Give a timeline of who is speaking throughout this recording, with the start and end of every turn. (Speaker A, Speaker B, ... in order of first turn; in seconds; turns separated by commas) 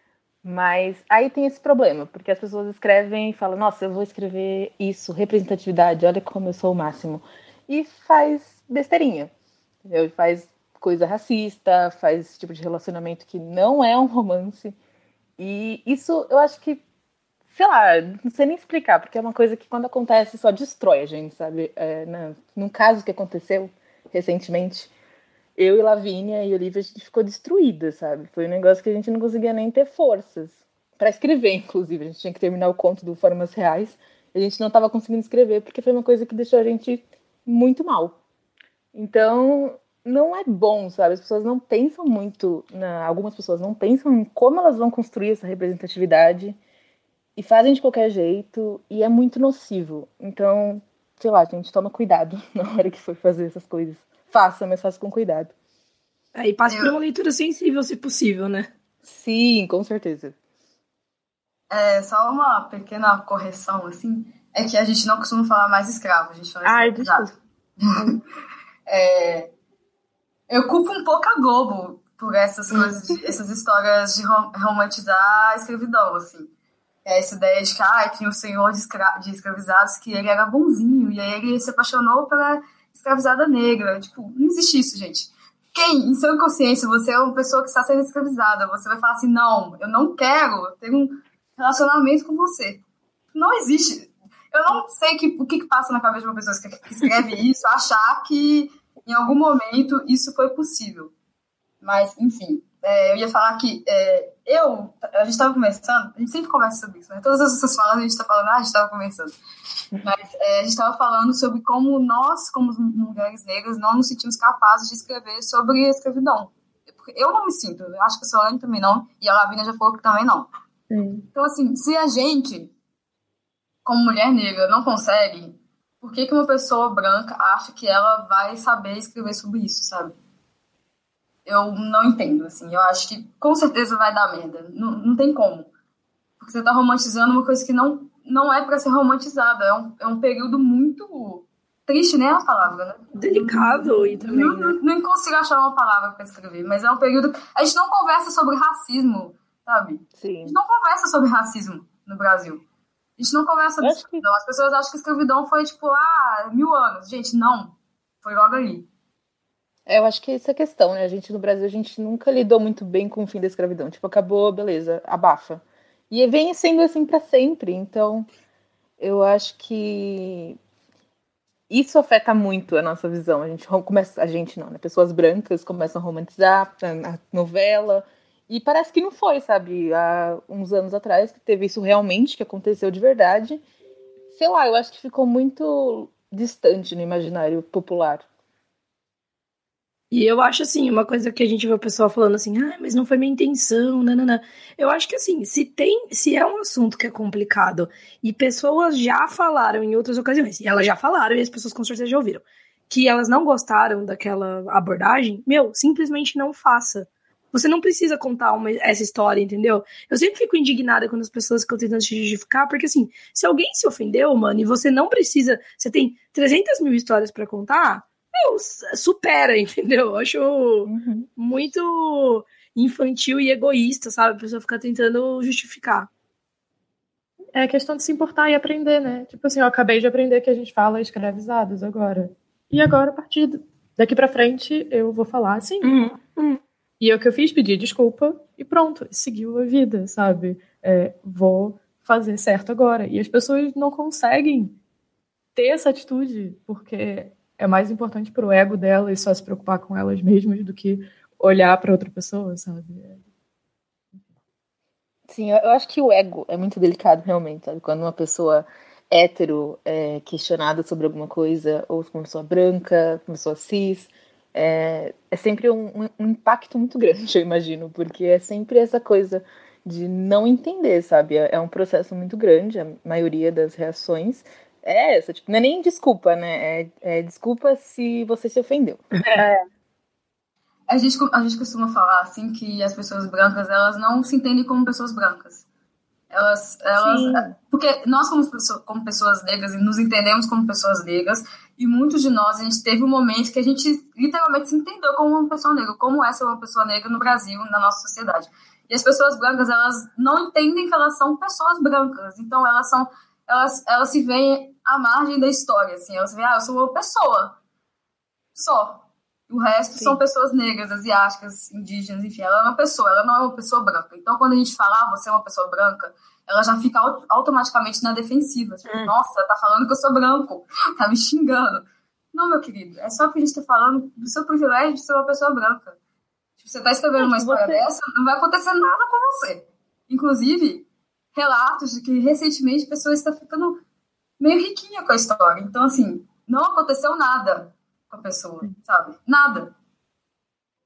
Speaker A: 0.4-9.3, Speaker A: 9.8-14.8, Speaker A: 15.4-16.8, Speaker A: 17.5-24.9, Speaker A: 25.6-38.2, Speaker A: 38.9-46.6, Speaker A: 47.4-55.5, Speaker B: 56.3-58.7, Speaker C: 56.7-57.0, Speaker A: 59.0-60.3, Speaker C: 61.7-68.1, Speaker D: 66.6-67.3, Speaker C: 68.9-69.5, Speaker C: 70.5-76.5, Speaker C: 77.0-92.8, Speaker C: 93.3-101.1, Speaker C: 101.8-109.3, Speaker C: 110.0-120.5, Speaker D: 120.9-121.3, Speaker C: 121.3-122.7, Speaker C: 123.8-130.1, Speaker C: 131.4-135.7, Speaker C: 136.4-152.6, Speaker B: 143.2-144.8, Speaker A: 150.2-150.6, Speaker C: 153.2-158.9, Speaker A: 153.8-154.2, Speaker A: 159.9-168.3, Speaker A: 169.0-170.6, Speaker A: 171.7-183.6, Speaker A: 184.3-188.2, Speaker B: 190.1-226.1, Speaker A: 220.8-221.3, Speaker D: 227.5-235.9, Speaker B: 235.8-236.6, Speaker D: 237.0-244.8, Speaker D: 245.5-253.2, Speaker A: 255.3-279.0, Speaker D: 279.4-279.6, Speaker C: 280.9-285.6, Speaker C: 286.3-307.6, Speaker A: 286.9-287.6, Speaker C: 308.5-325.9, Speaker C: 326.6-333.8, Speaker A: 327.1-327.9, Speaker C: 334.4-339.7